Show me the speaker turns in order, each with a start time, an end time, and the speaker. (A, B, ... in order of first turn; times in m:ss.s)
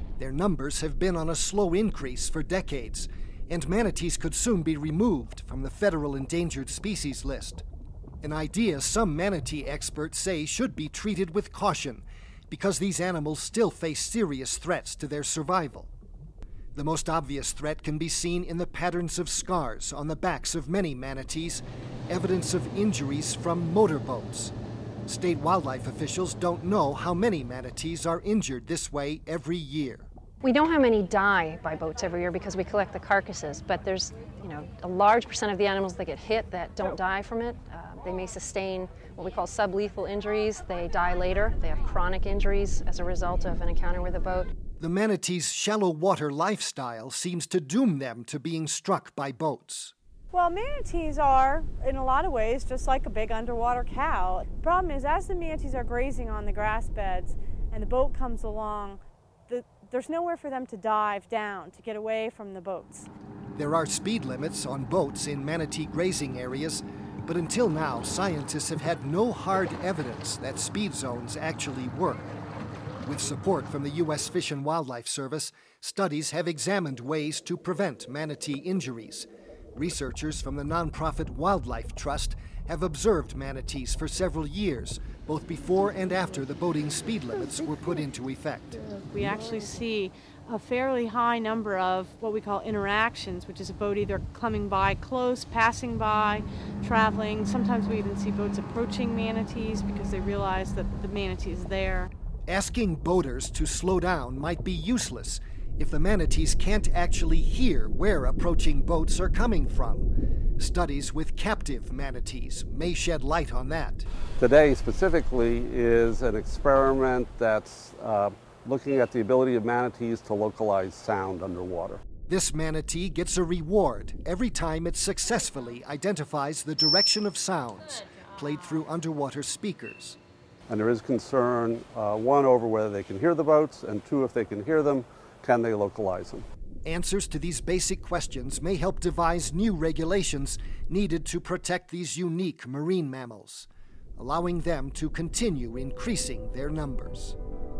0:00.2-0:07.6 A
0:08.2-0:15.9 A
0:16.8-0:24.5 A
0:25.1-0:30.1 A
0:30.4-0:44.5 B
0:44.8-0:49.9 A
0:50.3-1:03.1 C
1:03.5-1:12.4 A
1:13.0-1:28.8 A
1:29.1-1:42.1 C
1:42.5-1:54.1 A
1:54.4-2:02.0 D
2:02.3-2:10.2 A
2:10.7-2:16.5 D
2:16.8-2:27.4 A